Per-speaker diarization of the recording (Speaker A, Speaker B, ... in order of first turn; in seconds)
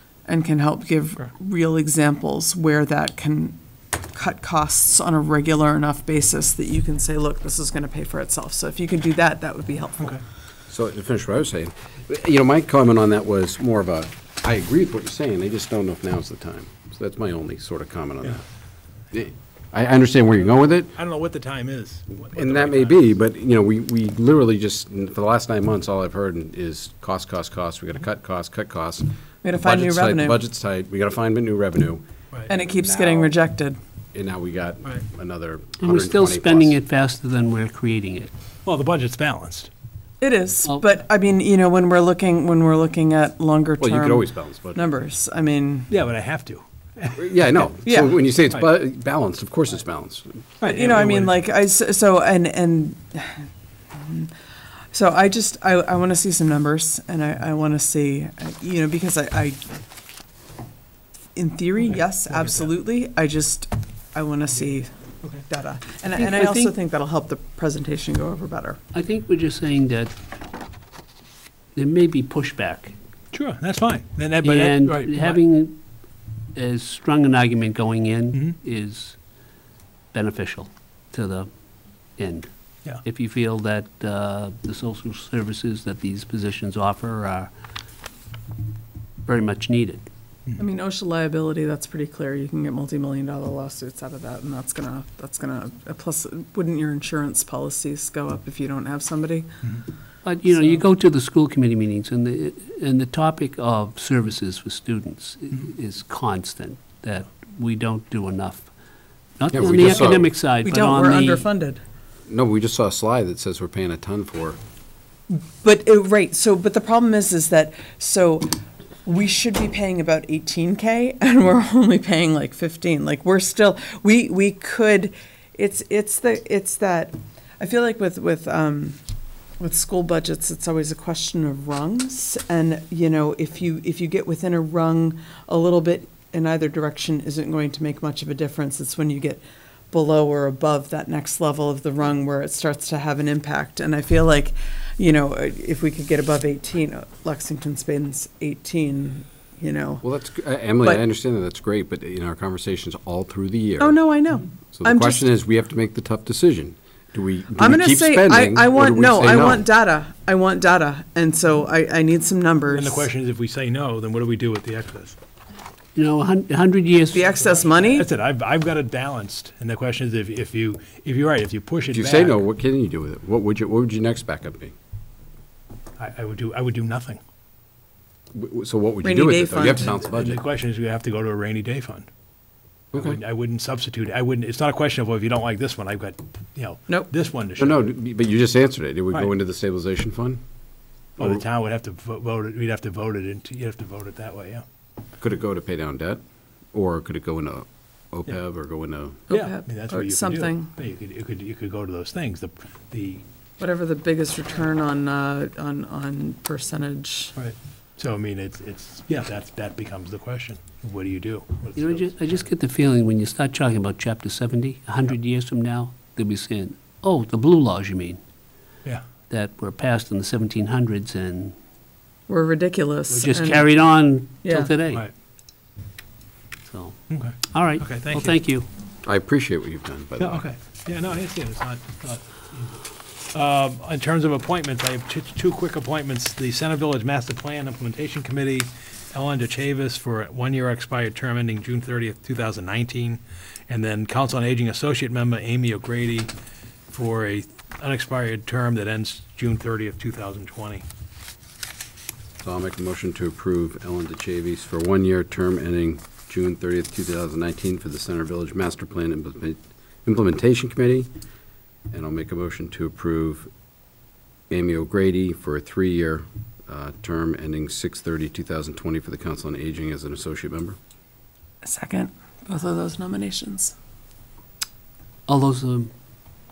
Speaker A: 0.3-3.6, 4.1-10.2, 29.4-30.4, 32.5-33.8, 40.2-45.9, 47.9-48.1, 50.7-54.3, 54.9-59.7, 61.4-64.9, 65.5-68.8, 90.6-99.5, 110.6-111.8, 115.3-129.0, 129.6-150.1, 153.8-155.3, 157.6-163.1, 167.1-168.1, 179.0-180.0, 199.3-200.7, 203.6-207.3, 222.3-223.7, 224.4-224.7, 271.6-273.8
Speaker B: 10.7-18.4, 19.1-20.9, 22.4-33.3, 34.1-36.8, 43.8-44.9, 47.2-50.4, 109.5-110.3, 112.3-114.6, 150.0-154.0, 154.7-159.6, 171.9-174.7, 178.3-180.4, 182.9-183.2, 187.6-190.4, 195.2-196.2, 196.7-199.2, 229.0-230.4, 252.4-261.1, 261.9-263.5, 264.5-270.8
Speaker C: 20.5-23.0, 38.6-39.7, 45.9-47.3, 50.6-51.4, 61.9-62.7, 73.3-75.4, 162.7-165.2, 167.2-172.4, 176.0-177.2, 179.7-182.1, 182.9-187.8, 191.2-194.7, 199.3-203.2, 207.4-212.4, 227.1-228.4, 230.2-246.3, 246.9-250.9
Speaker D: 35.8-38.3, 66.2-66.7, 68.9-70.1, 71.8-73.0, 74.4-75.8, 76.5-79.2, 80.1-81.5, 82.2-82.5, 83.0-87.5, 89.3-90.1, 100.2-108.7, 109.4-111.4, 165.9-167.2, 211.8-218.2, 219.3-221.6, 223.1-225.0, 226.7-227.0, 227.5-228.7, 275.3-275.9